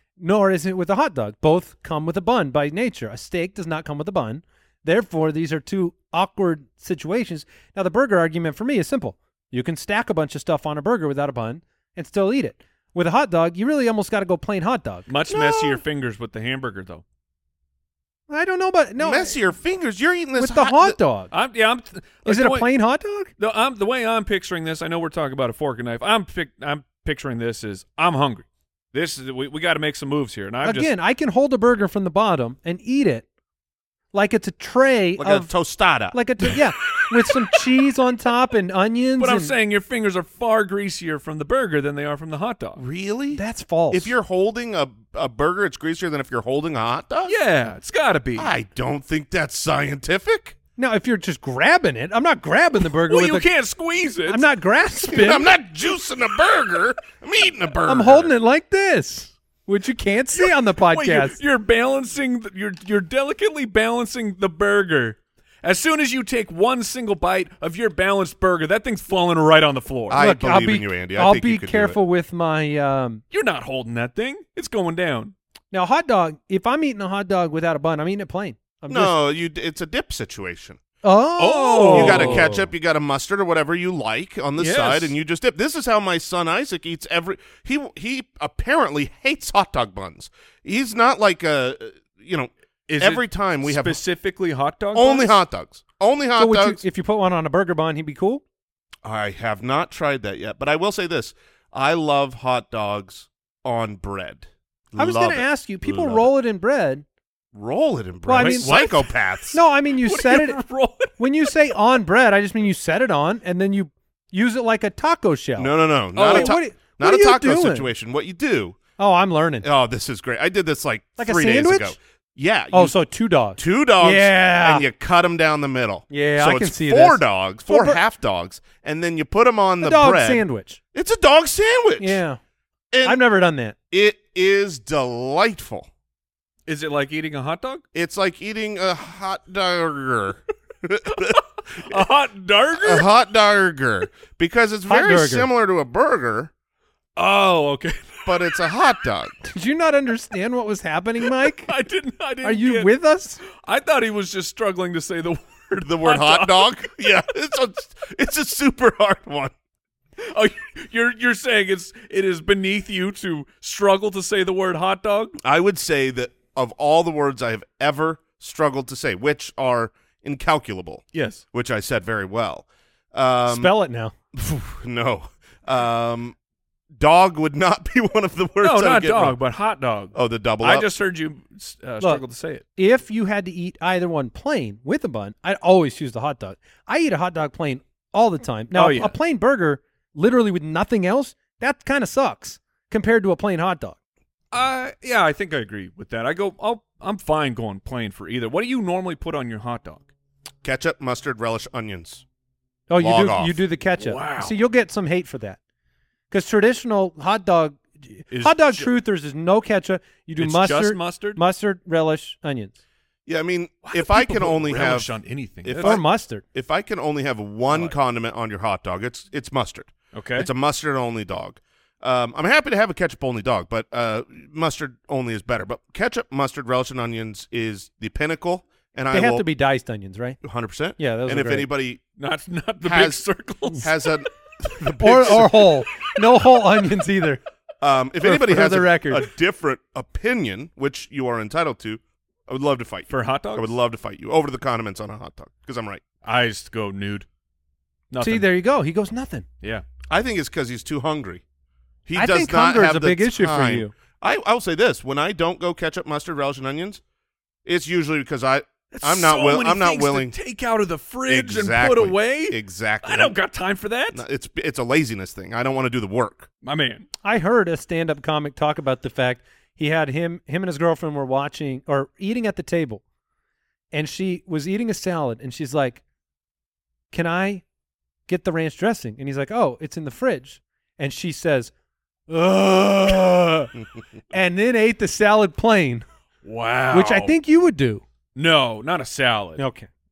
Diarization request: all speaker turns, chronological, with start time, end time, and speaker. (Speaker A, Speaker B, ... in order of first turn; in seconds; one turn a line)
Speaker A: 0.2-15.1
Speaker B: 15.1-17.0
Speaker C: 15.3-15.8
Speaker A: 18.3-19.4
Speaker C: 19.0-21.0
Speaker A: 20.4-21.3
Speaker B: 21.3-22.7
Speaker A: 22.2-23.3
Speaker B: 23.4-30.9
Speaker A: 30.6-33.2
Speaker A: 34.1-35.5
Speaker C: 35.2-36.5
Speaker A: 36.1-39.5
Speaker B: 39.2-42.8
Speaker C: 42.8-47.4
Speaker A: 43.3-44.1
Speaker B: 47.2-48.5
Speaker C: 48.4-50.5
Speaker A: 50.8-53.5
Speaker B: 53.0-54.5
Speaker A: 54.3-55.4
Speaker C: 55.1-58.3
Speaker A: 57.9-61.4
Speaker B: 60.4-70.2
Speaker C: 70.1-72.0
Speaker A: 70.1-73.2
Speaker B: 73.3-75.3
Speaker A: 75.7-79.1
Speaker C: 78.9-80.8
Speaker A: 81.0-82.7
Speaker B: 81.4-82.5
Speaker C: 81.9-94.0
Speaker B: 84.6-85.2
Speaker B: 92.9-95.4
Speaker C: 94.9-96.8
Speaker A: 96.4-98.4
Speaker C: 99.0-106.3
Speaker A: 105.0-107.0
Speaker C: 107.5-109.6
Speaker A: 108.2-108.8
Speaker B: 108.3-109.1
Speaker A: 109.5-110.6
Speaker B: 110.0-111.2
Speaker A: 111.2-115.7
Speaker C: 115.6-118.8
Speaker B: 116.1-116.5
Speaker A: 116.3-117.9
Speaker A: 119.0-119.7
Speaker C: 119.6-123.0
Speaker A: 121.2-121.9
Speaker A: 122.7-124.8
Speaker C: 123.5-132.2
Speaker A: 126.1-128.0
Speaker A: 129.8-130.8
Speaker A: 132.0-132.4
Speaker C: 132.9-133.2
Speaker A: 133.0-133.7
Speaker C: 133.9-135.9
Speaker B: 136.7-137.8
Speaker C: 137.9-141.4
Speaker B: 141.8-143.1
Speaker C: 142.8-146.5
Speaker A: 144.9-145.5
Speaker B: 147.2-148.3
Speaker C: 148.2-149.3
Speaker A: 149.4-151.7
Speaker B: 151.4-152.9
Speaker A: 152.4-153.4
Speaker B: 153.5-156.9
Speaker C: 155.8-159.5
Speaker B: 160.3-165.4
Speaker C: 165.4-173.7
Speaker B: 171.1-171.4
Speaker A: 173.5-174.1
Speaker C: 174.3-176.3
Speaker C: 177.0-179.4
Speaker B: 178.6-182.6
Speaker C: 180.1-180.9
Speaker A: 182.8-193.9
Speaker B: 188.7-189.1
Speaker B: 194.5-200.1
Speaker C: 200.6-202.2
Speaker A: 202.9-205.6
Speaker C: 203.0-203.6
Speaker B: 204.0-204.6
Speaker A: 206.3-212.7
Speaker B: 208.3-208.9
Speaker B: 210.4-211.4
Speaker C: 213.2-215.1
Speaker B: 213.8-216.0
Speaker C: 215.6-229.4
Speaker A: 215.8-216.4
Speaker B: 220.1-220.5
Speaker A: 229.1-230.4
Speaker C: 230.4-232.0
Speaker A: 231.0-231.7
Speaker B: 232.2-234.0
Speaker C: 232.8-235.7
Speaker A: 235.0-237.4
Speaker C: 237.8-246.0
Speaker A: 238.2-239.2
Speaker B: 243.1-243.7
Speaker B: 246.2-247.2
Speaker B: 248.1-248.5
Speaker A: 248.2-249.4
Speaker C: 250.1-251.4
Speaker C: 252.1-257.0
Speaker A: 252.2-253.9
Speaker C: 257.6-260.3
Speaker B: 258.9-264.2
Speaker C: 261.3-263.3
Speaker C: 264.1-266.5
Speaker B: 266.6-267.1
Speaker A: 267.2-273.0
Speaker A: 273.9-276.0
Speaker A: 277.1-277.6
Speaker A: 278.3-281.7
Speaker A: 282.3-283.7
Speaker A: 284.3-286.0
Speaker B: 286.4-287.4
Speaker A: 286.9-288.0
Speaker B: 288.4-289.6
Speaker A: 289.6-289.9